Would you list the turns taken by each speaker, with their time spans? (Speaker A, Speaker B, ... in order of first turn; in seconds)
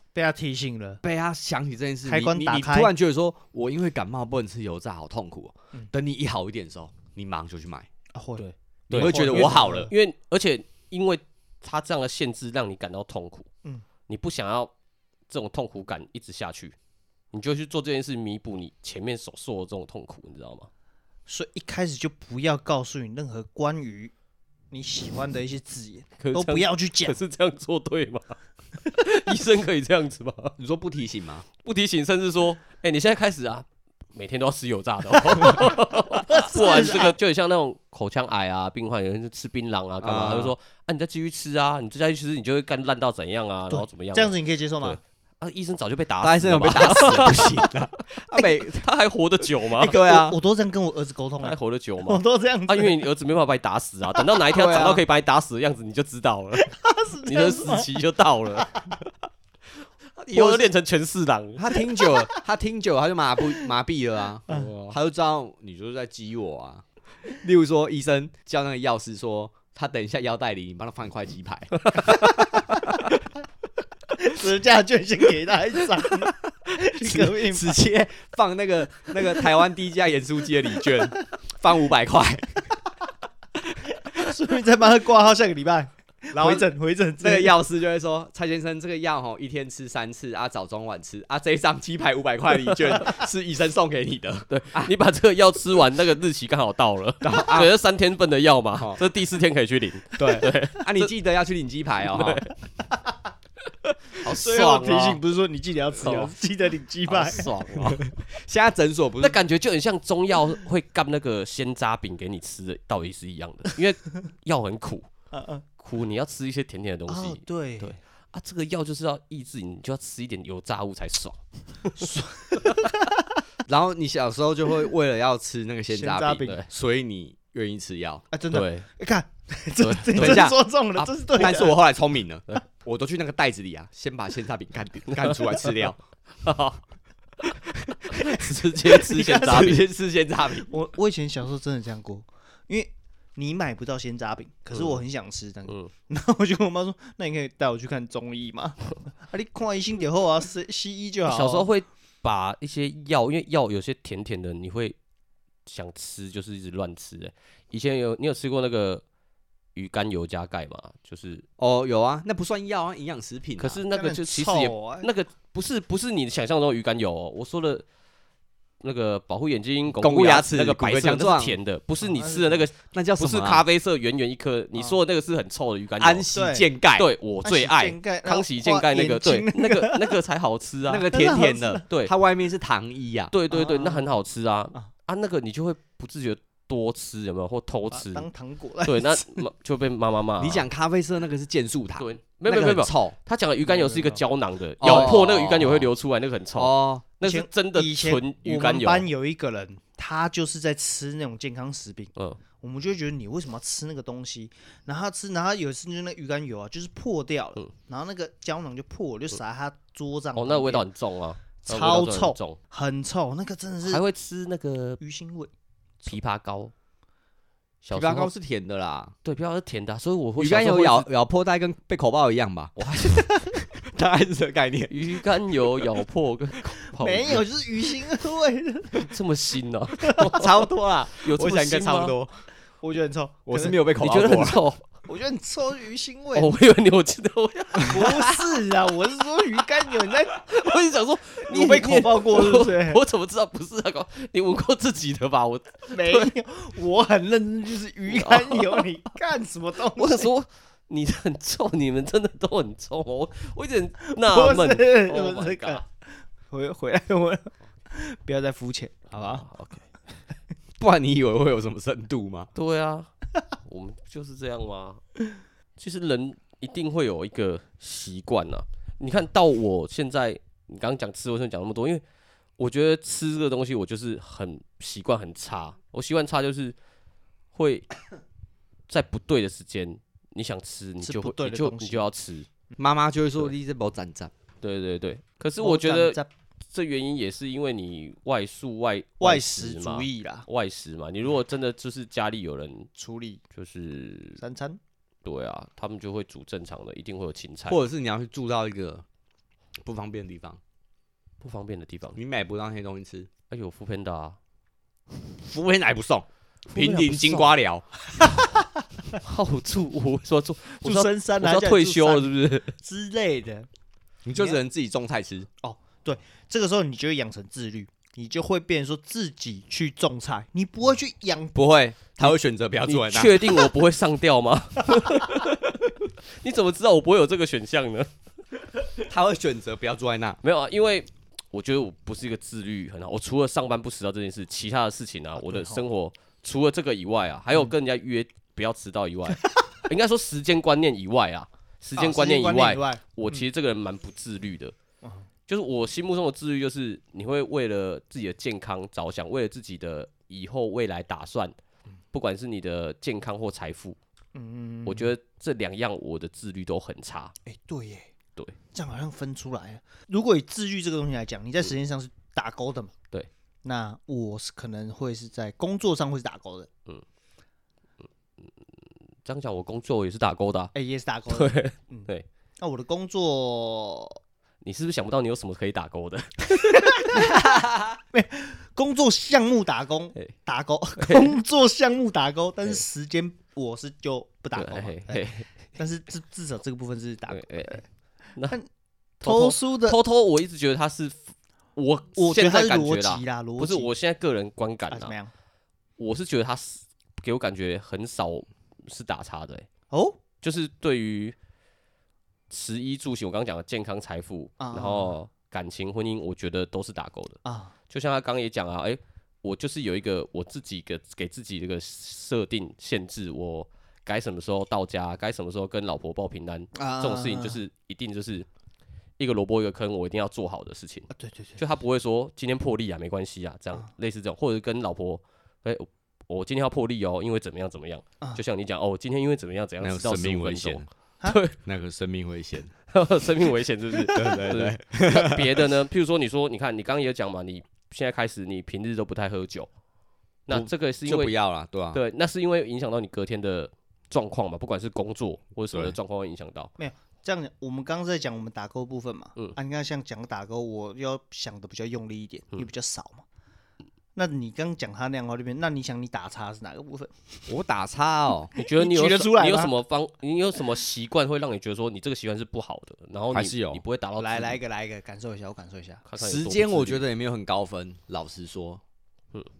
Speaker A: 0.1-1.0, 2.0-2.9, 8.1-9.9, 21.3-24.1, 24.7-27.2, 36.3-37.2, 43.7-45.0, 49.9-53.0, 56.6-57.9, 58.5-58.9, 74.2-77.8, 84.0-87.6, 104.2-107.9, 115.3-115.6, 117.1-117.9, 122.0-123.4, 125.9-126.6, 128.3-131.8, 138.9-139.8, 140.7-151.7, 163.9-165.1, 172.0-172.7, 176.3-176.7, 177.4-180.2, 181.1-181.8, 183.5-184.1, 187.9-189.4, 193.6-194.2, 197.2-210.8, 211.6-214.0, 215.0-215.5, 223.1-223.5, 226.9-229.1, 230.0-230.3, 232.8-233.8, 235.1-236.5, 237.8-240.4, 241.5-243.0, 245.9-250.3, 254.1-255.9, 256.5-259.5, 281.0-282.1, 285.6-286.3, 289.2-290.5, 292.9-293.4, 294.4-294.8, 308.2-308.6, 310.8-313.7, 314.3-314.6, 315.6-321.6, 335.4-335.8, 341.9-343.4, 354.3-355.1, 357.4-358.1, 358.7-362.9, 363.6-366.7, 370.7-374.2, 376.7-387.8, 389.2-390.0, 392.1-393.9, 394.9-395.3, 399.9-400.2, 404.6-405.2, 407.4-407.7, 416.7-417.6, 421.1-421.6, 446.8-453.2, 454.1-457.5, 458.6-459.7, 464.2-466.0
Speaker B: 1.0-7.9, 8.9-9.9, 30.6-31.4, 40.0-40.5, 46.2-48.8, 49.8-50.4, 54.5-55.0, 60.3-60.7, 61.5-73.0, 76.9-82.7, 86.3-86.7, 87.2-94.9, 97.2-97.7, 100.2-102.5, 107.9-109.4, 123.7-128.2, 130.1-130.6, 131.2-136.0, 137.7-140.7, 161.6-163.8, 170.0-171.6, 172.9-173.6, 176.0-177.1, 180.9-183.3, 190.4-193.2, 194.8-195.9, 196.6-197.0, 217.9-219.1, 220.4-225.0, 230.2-232.4, 233.4-234.6, 260.8-262.5, 282.8-284.3, 297.7-299.0, 299.8-300.6, 302.1-303.3, 305.4-307.9, 314.2-315.5, 321.5-323.6, 329.0-330.4, 377.3-377.9, 429.8-430.9, 431.6-432.7, 434.1-435.6, 440.5-442.0, 457.5-458.5, 463.3-463.8, 466.2-468.8
Speaker C: 8.4-13.5, 14.1-14.7, 15.3-16.7, 17.3-20.7, 26.2-30.5, 31.6-47.6, 48.4-50.0, 51.4-58.7, 60.2-61.8, 64.5-65.0, 94.5-101.1, 102.0-102.5, 103.8-105.2, 106.0-106.3, 107.1-108.0, 109.2-115.1, 115.8-122.8, 128.5-128.8, 129.8-131.1, 135.1-135.9, 136.4-136.8, 138.1-139.8, 144.7-145.0, 151.2-155.0, 155.7-159.0, 159.7-161.4, 163.6-167.8, 168.8-176.3, 176.9-181.1, 181.9-182.1, 183.3-188.3, 188.8-190.7, 192.0-199.1, 210.3-212.6, 213.8-215.0, 216.1-216.7, 217.8-218.3, 219.2-221.1, 222.8-223.2, 224.9-227.4, 228.9-232.1, 234.0-234.8, 236.3-238.5, 239.9-246.3, 248.1-248.9, 249.9-255.8, 259.1-259.8, 262.5-265.0, 265.8-272.0, 272.6-276.8, 277.5-277.9, 278.9-282.5, 284.6-286.2, 286.7-292.9, 293.5-294.4, 295.2-297.8, 301.4-302.2, 303.5-304.4, 306.7-307.5, 309.2-312.7, 322.2-328.1, 330.4-344.7, 345.5-351.5, 352.1-354.0, 354.8-357.3, 368.4-370.7, 371.3-372.2, 374.6-377.3, 381.0-381.4, 384.5-385.5, 387.3-387.8, 389.2-395.1, 396.0-399.7, 400.4-401.4, 402.5-407.4, 407.9-418.5, 419.2-431.6, 432.9-439.7, 440.5-441.3, 441.9-446.7, 458.5-464.6, 466.0-467.0